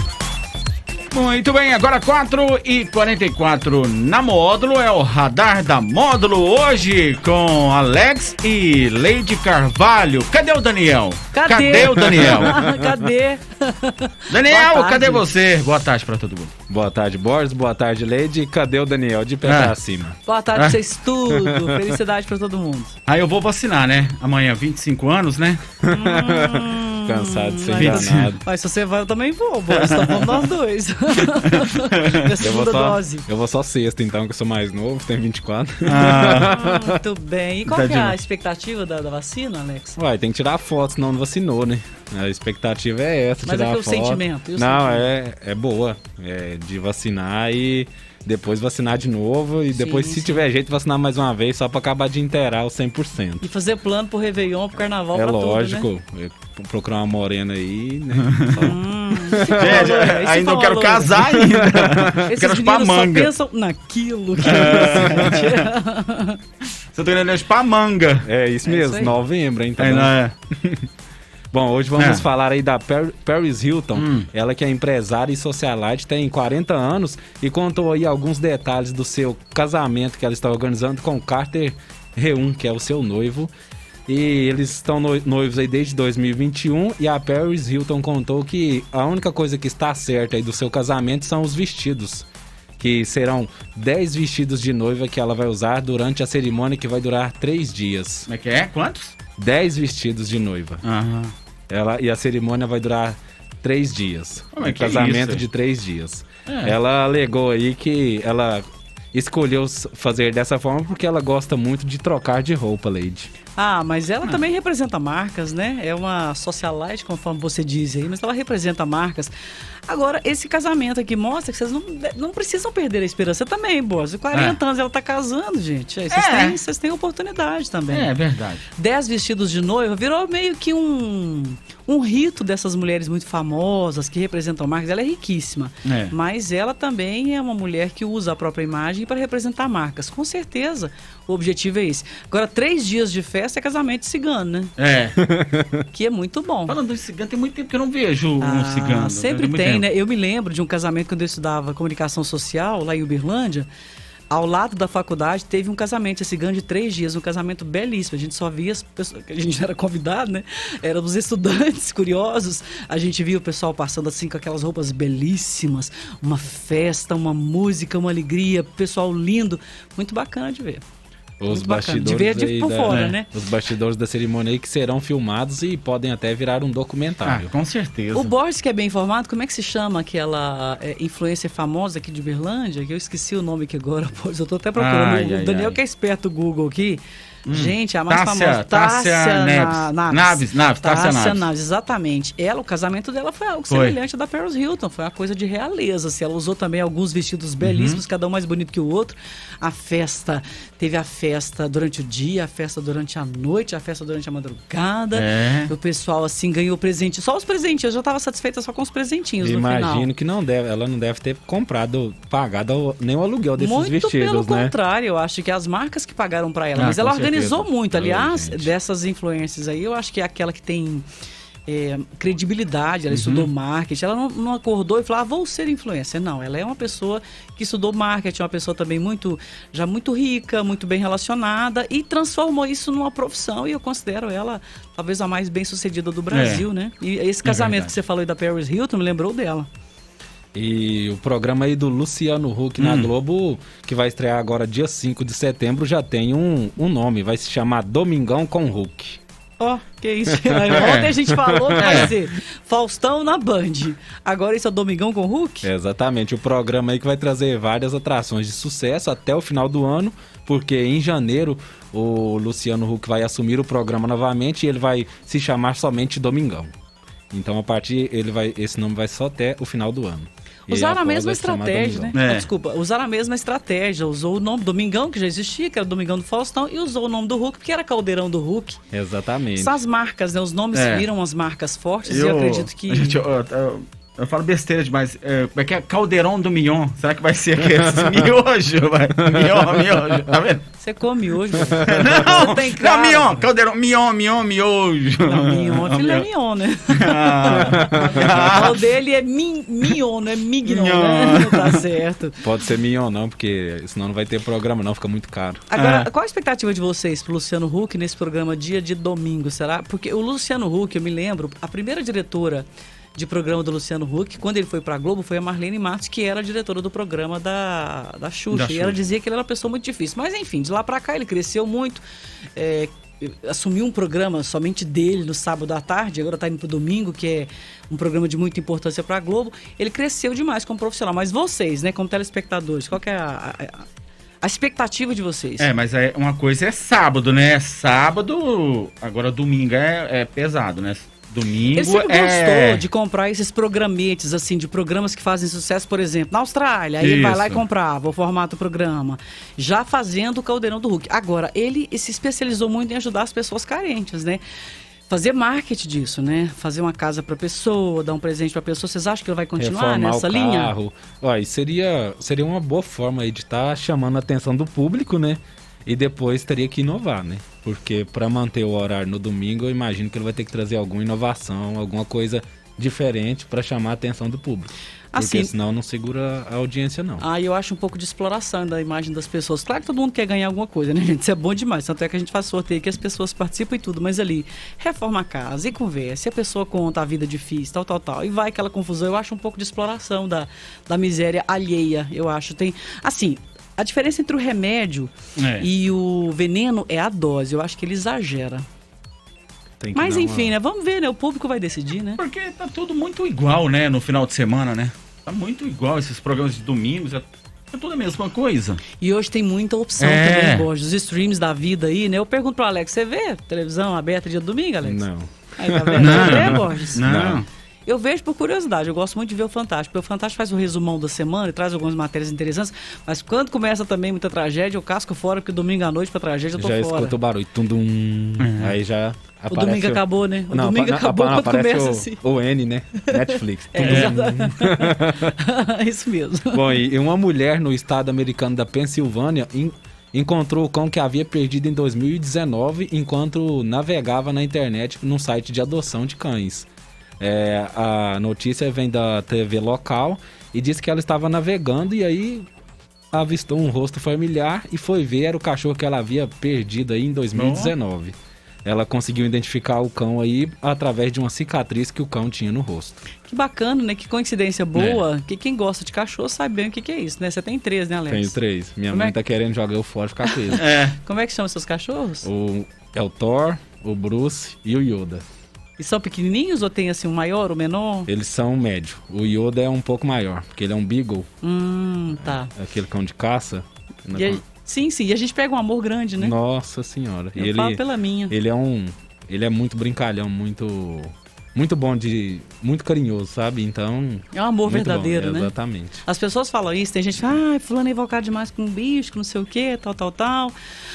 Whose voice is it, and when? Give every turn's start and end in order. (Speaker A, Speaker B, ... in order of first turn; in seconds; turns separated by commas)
Speaker A: 1.1-12.6, Speaker B: 11.3-15.2, Speaker C: 12.0-13.0, Speaker A: 14.3-16.5, Speaker C: 16.7-20.2, Speaker A: 19.4-19.7, Speaker B: 20.2-22.9, Speaker C: 21.3-22.0, Speaker A: 23.1-25.6, Speaker C: 25.8-28.4, Speaker B: 25.9-33.3, Speaker A: 27.7-28.4, Speaker A: 29.7-30.4, Speaker A: 31.4-32.1, Speaker C: 32.4-37.0, Speaker A: 35.9-36.5, Speaker B: 36.2-40.0, Speaker A: 37.7-38.1, Speaker C: 40.0-53.5, Speaker B: 43.4-45.1, Speaker B: 49.7-50.4, Speaker B: 53.4-55.9, Speaker C: 55.1-60.0, Speaker A: 58.2-58.6, Speaker B: 58.5-61.3, Speaker A: 59.5-63.3, Speaker C: 61.2-62.3, Speaker B: 62.2-66.4, Speaker A: 64.4-65.7, Speaker C: 64.4-65.2, Speaker A: 66.9-68.3, Speaker C: 68.2-70.9, Speaker B: 68.6-69.2, Speaker A: 69.8-70.3, Speaker C: 71.5-83.5, Speaker A: 72.0-72.2, Speaker A: 73.9-74.3, Speaker C: 84.1-92.3, Speaker C: 92.8-98.3, Speaker A: 98.3-99.1, Speaker C: 99.4-100.8, Speaker A: 100.8-101.3, Speaker C: 101.7-113.3, Speaker A: 104.5-105.4, Speaker A: 106.5-106.7, Speaker B: 113.5-119.3, Speaker B: 119.9-128.1, Speaker A: 124.3-124.6, Speaker A: 126.1-126.6, Speaker A: 127.9-128.7, Speaker B: 128.7-144.7, Speaker A: 135.8-136.1, Speaker A: 144.8-145.2, Speaker C: 145.2-145.8, Speaker B: 145.9-146.8, Speaker A: 146.7-149.9, Speaker B: 148.4-153.7, Speaker B: 154.3-170.8, Speaker C: 171.4-177.5, Speaker B: 171.4-173.3, Speaker A: 172.9-173.1, Speaker A: 177.2-178.3, Speaker B: 178.1-210.1, Speaker A: 184.8-185.8, Speaker A: 187.5-191.5, Speaker A: 193.7-194.0, Speaker A: 197.6-198.0, Speaker A: 205.1-205.7, Speaker C: 209.4-214.7, Speaker B: 213.6-221.1, Speaker A: 216.7-218.7, Speaker B: 221.7-239.7, Speaker A: 223.1-223.5, Speaker A: 236.3-236.7, Speaker A: 237.4-237.9, Speaker C: 240.5-249.2, Speaker A: 242.8-243.1, Speaker B: 249.6-255.7, Speaker C: 250.4-252.1, Speaker A: 250.7-251.1, Speaker A: 251.8-252.1, Speaker C: 255.6-266.7, Speaker C: 267.3-272.1, Speaker B: 270.7-278.8, Speaker A: 272.1-272.5, Speaker C: 278.9-279.8, Speaker B: 279.6-283.2, Speaker A: 280.7-281.0, Speaker A: 282.0-290.6, Speaker C: 287.8-288.1, Speaker C: 289.3-289.7, Speaker B: 290.8-293.4, Speaker C: 291.6-292.2, Speaker A: 291.8-296.2, Speaker B: 295.2-302.4, Speaker A: 296.9-298.7, Speaker C: 297.5-298.5, Speaker A: 300.6-301.8, Speaker C: 302.4-305.6, Speaker B: 305.7-322.0, Speaker A: 305.8-306.1, Speaker A: 318.5-319.0, Speaker B: 322.6-333.8, Speaker B: 334.4-335.7, Speaker A: 335.6-342.8, Speaker B: 341.7-354.4, Speaker A: 347.0-347.6, Speaker B: 355.1-360.7, Speaker C: 359.6-377.2, Speaker B: 375.1-375.5, Speaker B: 377.2-398.6, Speaker A: 395.4-395.7, Speaker C: 399.8-400.5, Speaker B: 399.9-402.2, Speaker A: 402.2-408.8, Speaker B: 409.0-417.0, Speaker A: 410.0-410.7, Speaker C: 414.8-417.4, Speaker A: 416.0-417.5, Speaker B: 417.9-427.2, Speaker C: 426.6-435.4, Speaker A: 428.4-428.7, Speaker B: 429.5-432.2, Speaker B: 433.1-436.7, Speaker A: 433.8-434.3, Speaker C: 436.5-446.7, Speaker C: 447.2-452.4, Speaker C: 453.1-463.0, Speaker A: 457.3-457.7, Speaker B: 463.2-468.4, Speaker A: 464.7-465.0, Speaker C: 468.1-470.6, Speaker B: 468.9-469.1, Speaker B: 470.2-472.3, Speaker A: 470.6-471.0, Speaker C: 472.2-475.2, Speaker B: 475.8-478.1, Speaker C: 478.1-481.3, Speaker B: 481.4-482.5, Speaker C: 482.1-484.4, Speaker B: 484.1-486.3, Speaker C: 486.2-496.0, Speaker B: 487.3-488.3, Speaker B: 494.3-500.5